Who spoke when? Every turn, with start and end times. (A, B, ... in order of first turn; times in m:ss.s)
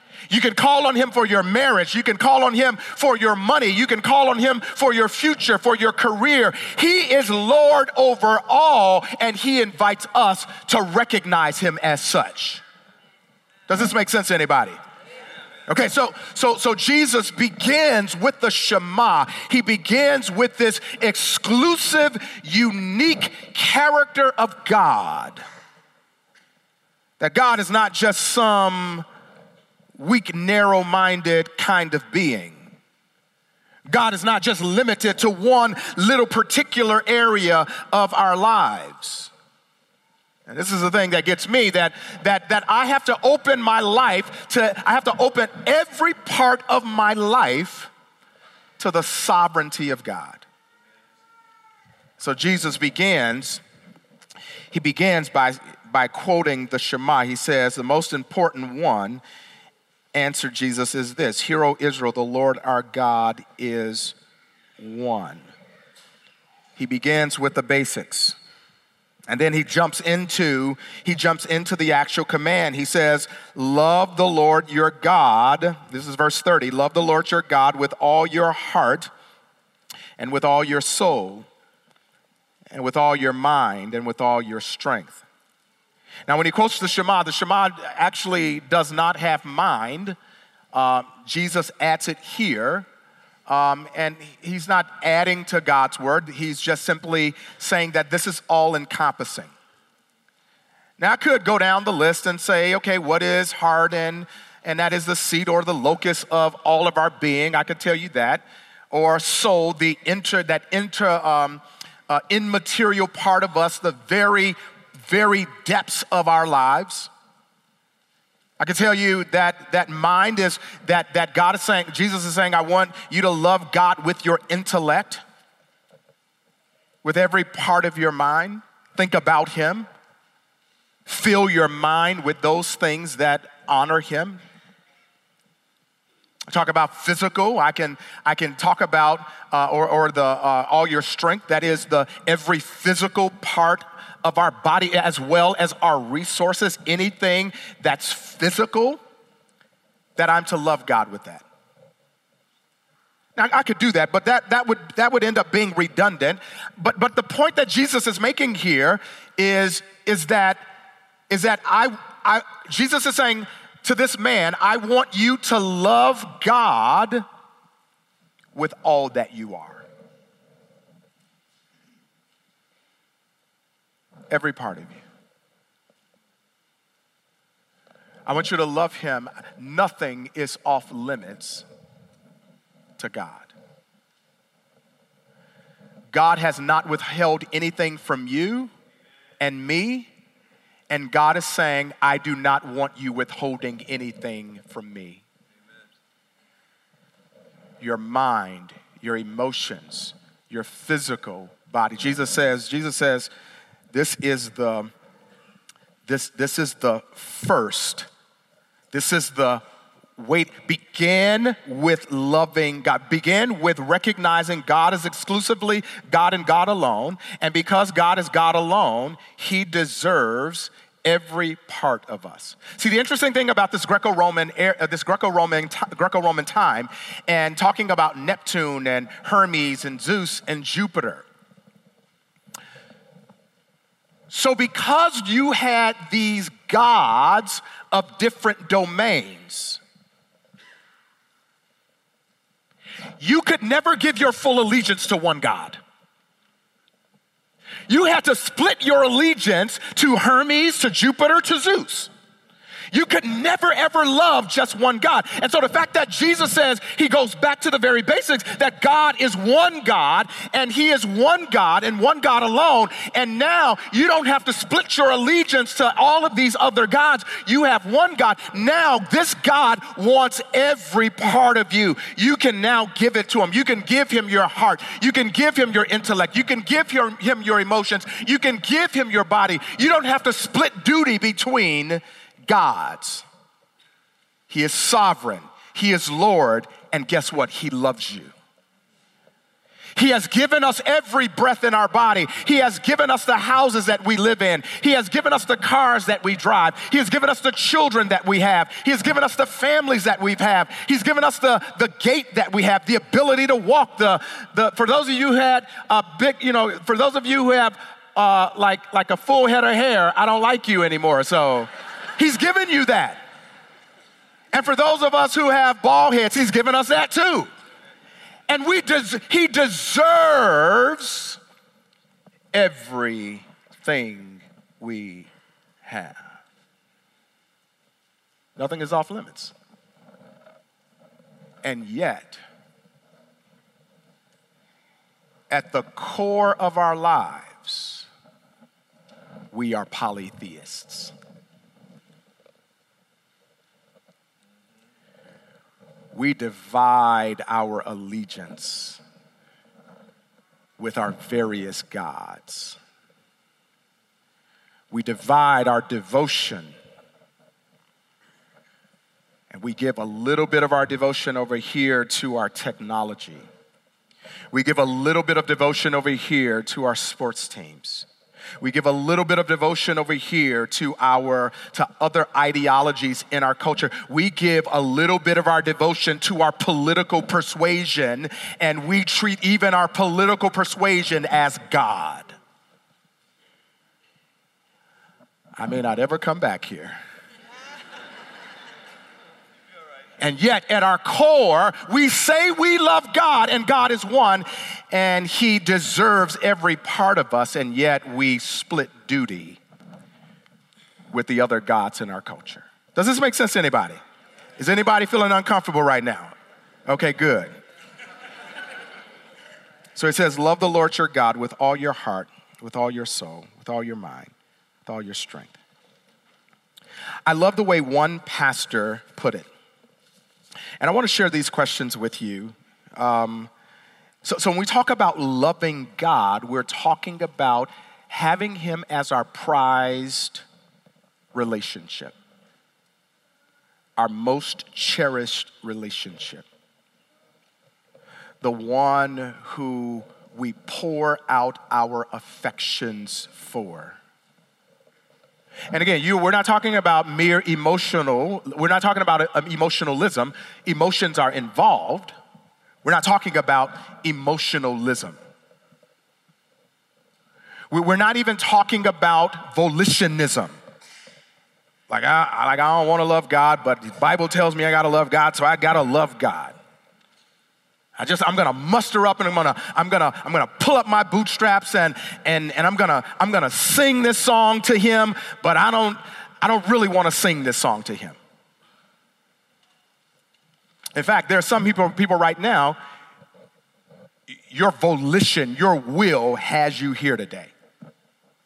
0:00.3-0:12.6 A
0:13.7-0:14.8 A
0:15.7-0:25.4 A
0:27.2-0:29.1 A
0:30.0-0:32.7 A
0:33.9-0:39.3 A
0:40.5-0:47.9 A
0:48.8-0:50.4 A
0:52.2-0:53.6 A
0:54.7-0:59.2 A
1:00.1-1:04.2 A
1:04.8-1:05.5 A
1:06.8-1:08.4 A
1:09.3-1:19.1 A
1:20.2-1:21.5 A
1:22.7-1:25.2 A
1:26.3-1:30.2 A
1:30.7-1:32.9 A
1:33.5-1:39.5 A
1:41.0-1:57.1 A
1:58.6-2:05.2 A
2:07.0-2:09.9 A
2:11.1-2:14.4 A
2:16.5-2:29.0 A
2:30.2-2:31.4 A
2:33.4-2:40.7 A
2:41.3-2:47.2 A
2:48.5-2:49.8 A
2:54.3-2:55.0 A
2:58.3-3:01.6 A
3:03.0-3:03.5 A
3:06.1-3:08.7 A
3:09.4-3:10.1 A
3:10.9-3:15.2 A
3:17.8-3:23.3 A
3:23.9-3:24.9 A
3:26.1-3:28.1 A
3:28.9-3:29.6 A
3:30.2-3:51.3 A
3:54.3-3:59.8 A
4:03.2-4:05.8 A
4:07.9-4:12.1 A
4:12.9-4:43.2 A
4:44.5-4:48.3 A
4:50.0-5:13.2 A
5:14.5-5:17.5 A
5:18.5-5:21.4 A
5:22.5-5:25.3 A
5:25.8-5:26.2 A
5:28.6-5:29.5 A
5:31.6-5:32.4 A
5:35.5-5:38.1 A
5:39.5-5:41.1 A
5:46.1-5:49.0 A
5:50.8-5:52.8 A
5:54.9-5:56.8 A
5:59.5-6:03.5 A
6:04.5-6:08.1 A
6:08.6-6:22.4 A
6:25.6-6:27.0 A
6:30.2-6:39.6 A
6:41.1-6:44.0 A
6:44.6-6:46.3 A
6:46.9-6:47.5 A
6:50.0-6:54.3 A
6:54.9-6:55.6 A
6:57.3-6:59.5 A
7:00.8-7:03.5 A
7:04.2-7:10.4 A
7:11.3-7:12.2 A
7:14.0-7:16.5 A
7:18.4-7:24.0 A
7:25.7-7:32.1 A
7:32.8-7:35.2 A
7:37.7-7:40.6 A
7:41.9-7:46.6 A
7:48.0-7:58.2 A
8:00.9-8:02.8 A
8:04.3-8:07.5 A